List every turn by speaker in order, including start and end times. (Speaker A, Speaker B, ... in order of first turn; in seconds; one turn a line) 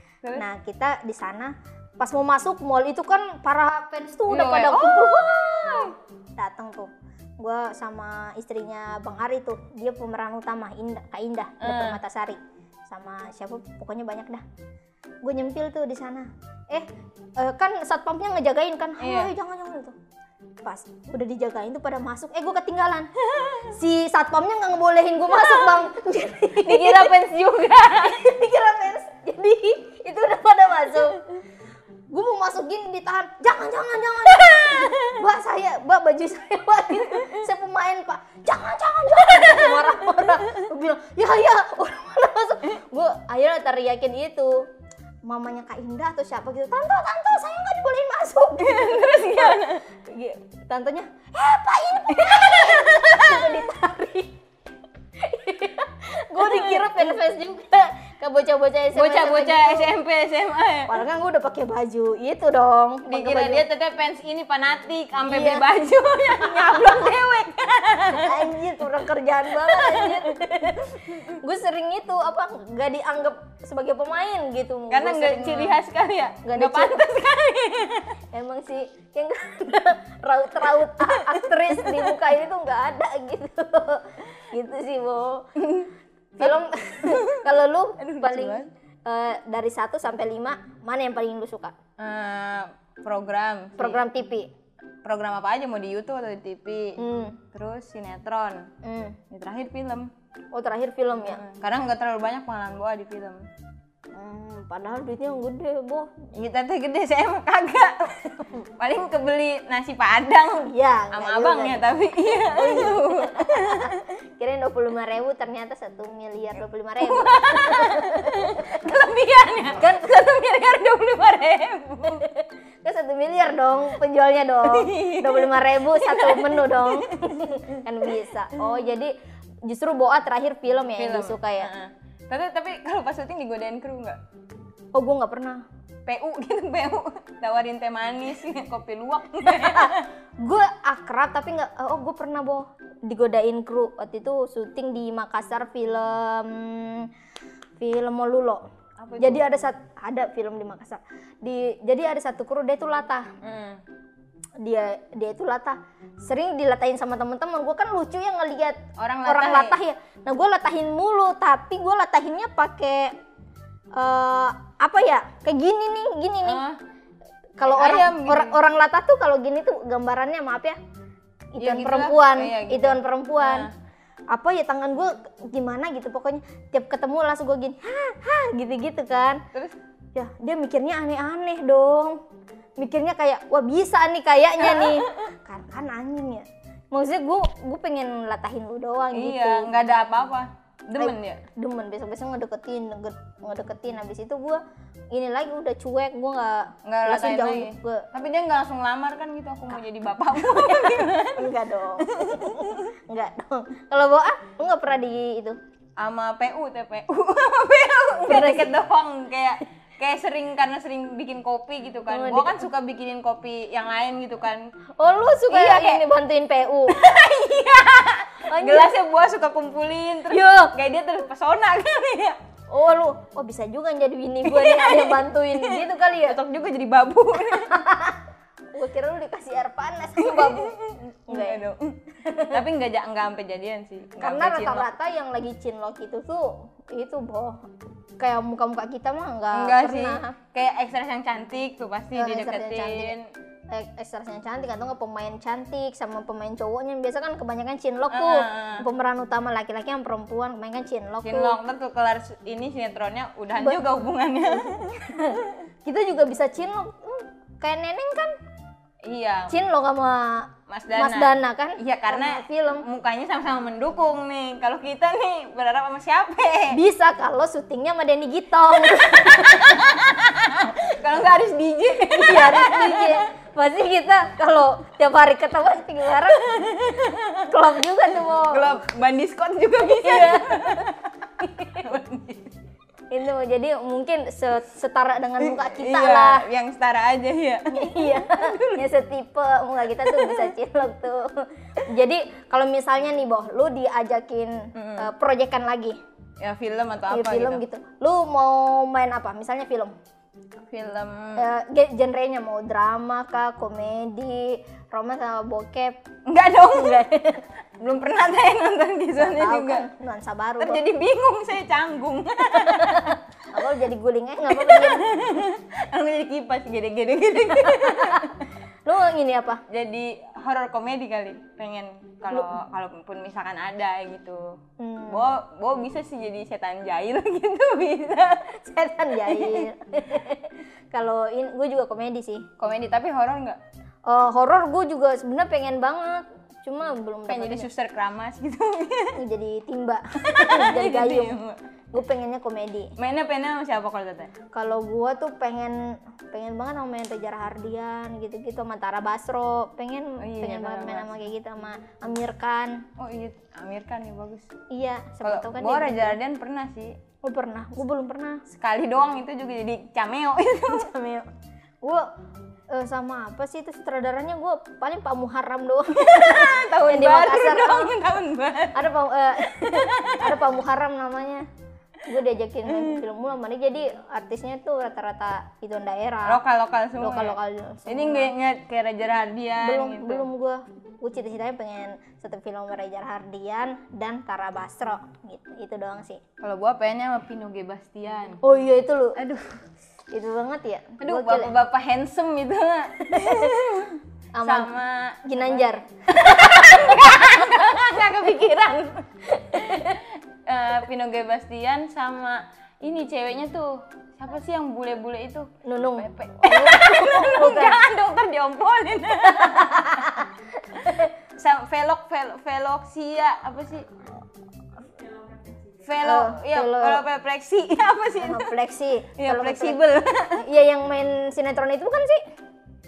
Speaker A: 0.3-14.4
Speaker B: 4.3-5.9
Speaker B: 11.6-12.0
Speaker A: 15.2-20.0
Speaker B: 19.0-19.3
Speaker A: 20.6-23.1
Speaker B: 23.2-23.7
Speaker A: 23.7-27.2
Speaker B: 25.4-25.8
Speaker B: 26.6-28.2
Speaker A: 27.9-31.3
Speaker A: 32.1-44.7
Speaker B: 34.3-35.2
Speaker B: 39.3-40.3
Speaker A: 45.2-54.4
Speaker B: 48.6-49.9
Speaker B: 52.1-53.7
Speaker A: 55.2-59.9
Speaker B: 56.4-57.0
Speaker B: 58.9-61.0
Speaker A: 60.9-63.6
Speaker B: 63.1-68.5
Speaker A: 65.3-65.7
Speaker A: 66.3-67.2
Speaker A: 68.1-75.8
Speaker B: 69.5-70.4
Speaker B: 74.9-78.2
Speaker A: 76.4-77.0
Speaker A: 78.3-85.5
Speaker B: 81.0-82.1
Speaker B: 85.6-87.5
Speaker A: 86.4-91.8
Speaker B: 88.0-88.7
Speaker B: 92.0-94.0
Speaker A: 93.8-94.5
Speaker B: 95.0-97.0
Speaker A: 97.0-97.4
Speaker B: 97.5-98.7
Speaker A: 98.8-99.2
Speaker B: 99.3-100.1
Speaker A: 100.5-101.4
Speaker B: 101.3-103.5
Speaker A: 104.1-106.1
Speaker B: 106.3-114.0
Speaker A: 110.6-118.9
Speaker B: 117.0-122.2
Speaker A: 119.7-120.1
Speaker A: 122.1-131.7
Speaker B: 124.6-127.4
Speaker B: 131.0-134.2
Speaker A: 134.9-135.6
Speaker B: 136.1-140.1
Speaker A: 139.5-147.1
Speaker A: 147.8-148.7
Speaker B: 149.0-149.5
Speaker A: 149.2-153.3
Speaker B: 153.4-153.8
Speaker A: 154.6-163.2
Speaker B: 159.0-159.8
Speaker A: 163.9-166.6
Speaker B: 166.4-166.8
Speaker A: 167.6-170.8
Speaker B: 167.7-168.6
Speaker A: 171.6-173.7
Speaker B: 171.6-173.7
Speaker A: 174.3-179.4
Speaker A: 180.2-182.2
Speaker A: 182.8-189.8
Speaker B: 184.6-185.3
Speaker B: 189.1-191.4
Speaker A: 191.0-198.1
Speaker B: 196.8-202.9
Speaker A: 200.4-205.6
Speaker B: 206.0-214.7
Speaker A: 208.3-208.8
Speaker A: 212.1-212.7
Speaker A: 215.0-217.0
Speaker B: 215.5-216.0
Speaker B: 216.9-222.4
Speaker A: 218.4-219.0
Speaker A: 220.3-220.7
Speaker A: 222.7-226.4
Speaker B: 224.4-227.9
Speaker A: 227.3-228.2
Speaker A: 228.7-230.8
Speaker B: 230.2-234.9
Speaker A: 231.3-232.6
Speaker A: 234.2-237.6
Speaker A: 238.2-240.4
Speaker B: 239.5-243.3
Speaker A: 242.1-243.2
Speaker A: 243.7-251.6
Speaker B: 248.1-248.9
Speaker B: 251.2-255.5
Speaker A: 254.8-258.3
Speaker B: 259.0-259.5
Speaker A: 259.5-262.9
Speaker B: 260.7-266.8
Speaker A: 266.7-269.9
Speaker B: 268.9-273.3
Speaker A: 272.1-276.5
Speaker B: 276.3-277.6
Speaker A: 277.4-278.8
Speaker B: 278.5-282.5
Speaker A: 279.8-280.9
Speaker A: 281.5-281.9
Speaker A: 283.1-286.5
Speaker B: 285.4-288.9
Speaker A: 287.7-296.0
Speaker B: 290.1-290.5
Speaker B: 294.8-295.1
Speaker B: 296.4-297.6
Speaker A: 297.1-299.9
Speaker B: 300.6-301.5
Speaker A: 301.4-306.0
Speaker B: 306.3-309.9
Speaker A: 306.7-307.4
Speaker A: 309.2-310.8
Speaker B: 310.6-313.2
Speaker A: 312.6-315.1
Speaker B: 314.5-318.4
Speaker A: 317.6-318.3
Speaker A: 318.9-319.6
Speaker B: 319.7-328.6
Speaker A: 324.8-325.4
Speaker A: 328.5-332.5
Speaker B: 329.1-329.7
Speaker B: 332.6-333.6
Speaker A: 334.1-337.7
Speaker B: 337.3-339.2
Speaker A: 339.2-341.4
Speaker B: 340.2-341.6
Speaker A: 341.9-342.9
Speaker B: 343.0-344.3
Speaker A: 344.5-352.9
Speaker B: 350.2-351.1
Speaker B: 353.0-354.5
Speaker A: 354.7-356.2
Speaker B: 355.2-357.0
Speaker A: 357.2-358.4
Speaker B: 358.5-360.9
Speaker A: 360.7-361.3
Speaker A: 361.8-362.1
Speaker A: 362.7-367.9
Speaker B: 366.0-368.9
Speaker A: 368.7-371.5
Speaker B: 369.4-370.6
Speaker A: 372.0-376.4
Speaker B: 372.7-373.0
Speaker B: 376.3-380.3
Speaker A: 377.0-378.3
Speaker A: 379.6-386.2
Speaker B: 386.4-388.4
Speaker A: 388.4-389.2
Speaker B: 389.2-389.6
Speaker A: 390.1-391.5
Speaker B: 391.0-410.1
Speaker A: 393.0-393.5
Speaker A: 394.3-394.7
Speaker A: 395.2-397.7
Speaker A: 399.3-400.0
Speaker A: 405.6-407.8
Speaker A: 409.3-411.1
Speaker B: 410.9-413.9
Speaker B: 415.8-418.5
Speaker A: 416.0-417.1
Speaker A: 418.2-419.8
Speaker B: 419.2-420.4
Speaker A: 420.4-422.2